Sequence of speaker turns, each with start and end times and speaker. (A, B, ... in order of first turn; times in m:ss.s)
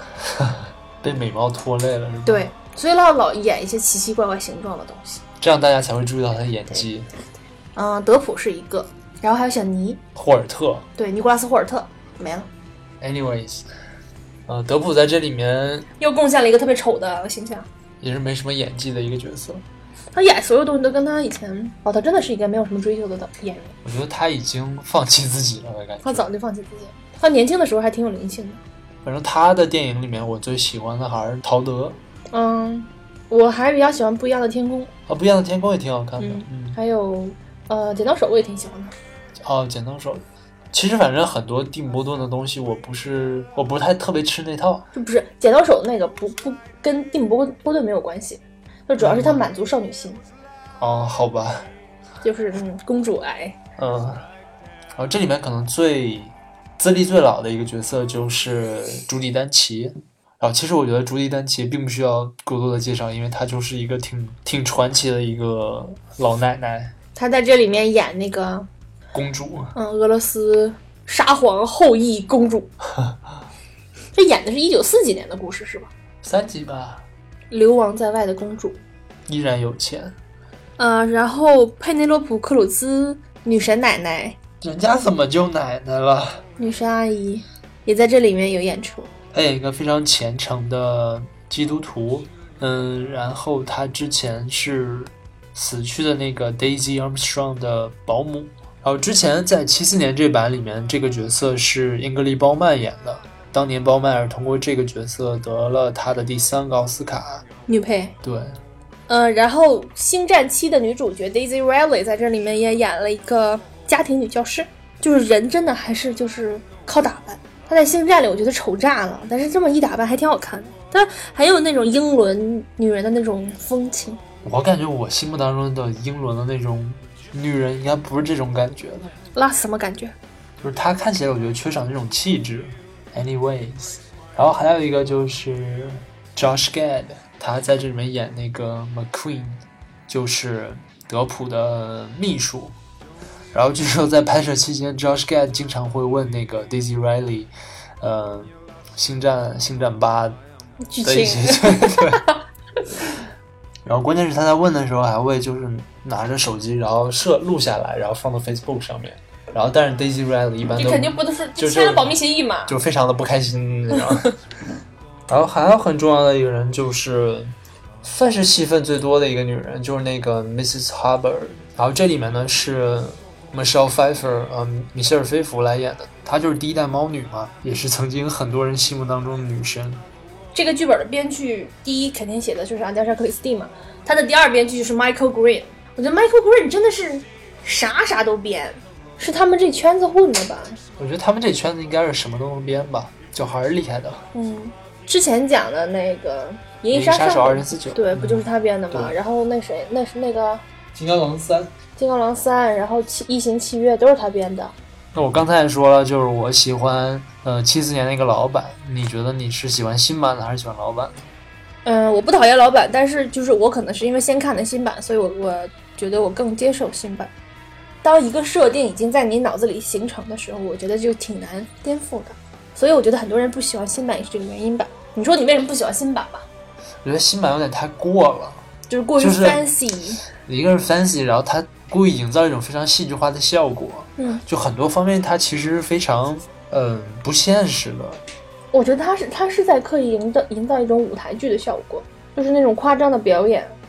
0:00.2-0:02.5 A
0:02.3-0:05.2 B
0:05.4-0:07.1 A
0:07.8-0:10.0 B
0:10.2-0:10.9 A
0:11.0-0:12.5 B
0:13.0-0:13.7 A
0:14.5-0:15.9 A
0:16.0-0:17.7 B
0:18.0-0:19.6 A
0:20.2-0:23.8 B
0:23.8-0:26.3 A
0:26.0-0:28.6 B
0:29.0-0:32.0 A
0:32.3-0:34.9 B
0:35.1-0:36.8 A
0:36.2-0:38.9 B
0:39.4-0:44.9 A
0:44.9-0:50.2 B
0:49.0-0:49.5 A
0:50.8-0:51.7 A
0:52.2-0:53.6 B
0:53.8-0:54.3 A
0:55.0-1:06.9 A
1:07.2-1:08.7 B
1:09.1-1:09.7 A
1:09.8-1:12.7 B
1:14.2-1:15.9 B
1:16.2-1:17.0 A
1:17.5-1:18.8 B
1:19.3-1:20.2 A
1:20.8-1:24.4 B
1:24.6-1:26.4 A
1:26.6-1:29.1 B
1:29.3-1:47.4 A
1:47.7-1:48.2 B
1:48.2-1:48.6 A
1:49.1-2:04.2 B
2:04.4-2:09.1 A
2:09.4-2:10.1 B
2:10.6-2:22.8 A
2:23.5-2:30.4 A
2:30.8-2:32.8 B
2:31.0-2:32.2 A
2:33.9-2:44.4 A
2:40.8-2:42.8 B
2:43.9-2:44.3 B
2:45.3-3:00.0 A
3:00.5-3:10.8 B
3:11.0-3:14.3 A
3:14.3-3:20.6 B
3:16.9-3:19.2 A
3:21.0-3:21.8 A
3:22.0-3:24.7 B
3:25.1-3:31.3 A
3:31.8-3:37.3 B
3:38.0-3:46.5 B
3:47.0-3:48.7 A
3:48.9-3:50.2 B
3:49.2-3:49.7 A
3:50.4-3:58.2 A
3:54.2-3:54.4 B
3:58.7-4:03.8 B